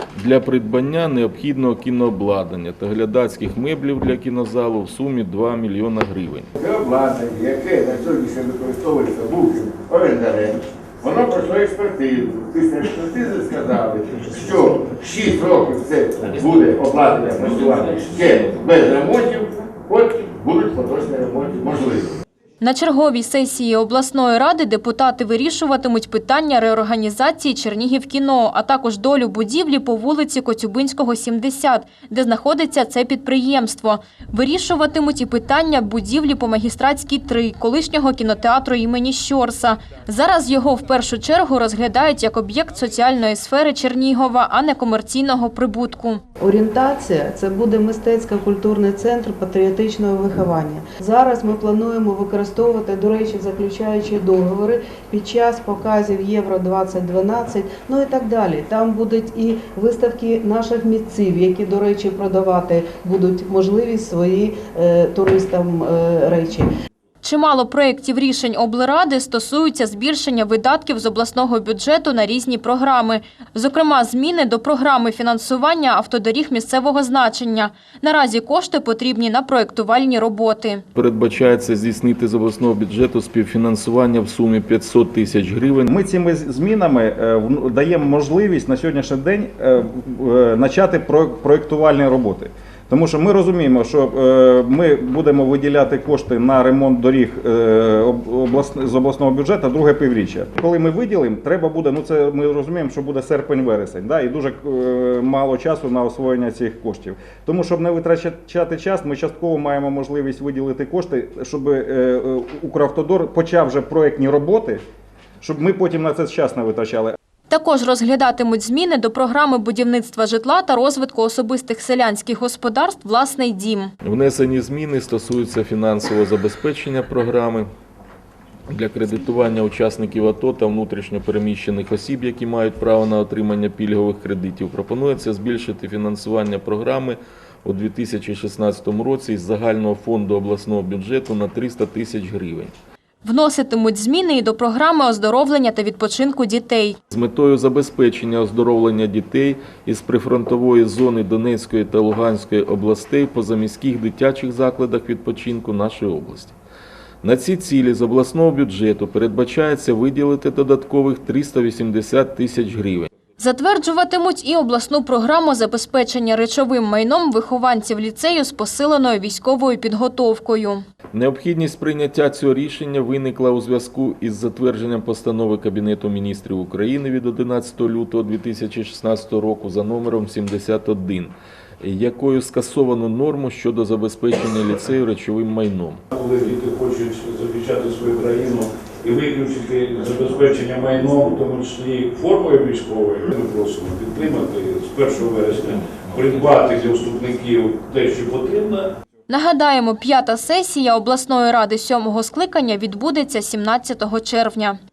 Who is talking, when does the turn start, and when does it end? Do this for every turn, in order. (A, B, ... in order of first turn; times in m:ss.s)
0:00.2-0:06.5 A
0:06.6-0:22.1 B
0:22.6-0:46.2 C
0:46.4-1:06.7 D
1:07.2-1:20.8 C
1:21.0-1:25.9 A
1:25.9-1:54.8 E
1:55.4-1:57.2 E
1:57.5-2:03.9 C
2:04.0-2:07.7 A
2:08.7-2:22.7 A
2:23.2-2:27.0 C
2:27.1-2:36.6 A
2:37.2-2:43.1 A
2:43.4-2:50.8 C
2:51.1-3:06.0 A
3:06.1-3:18.9 F
3:19.3-3:24.8 C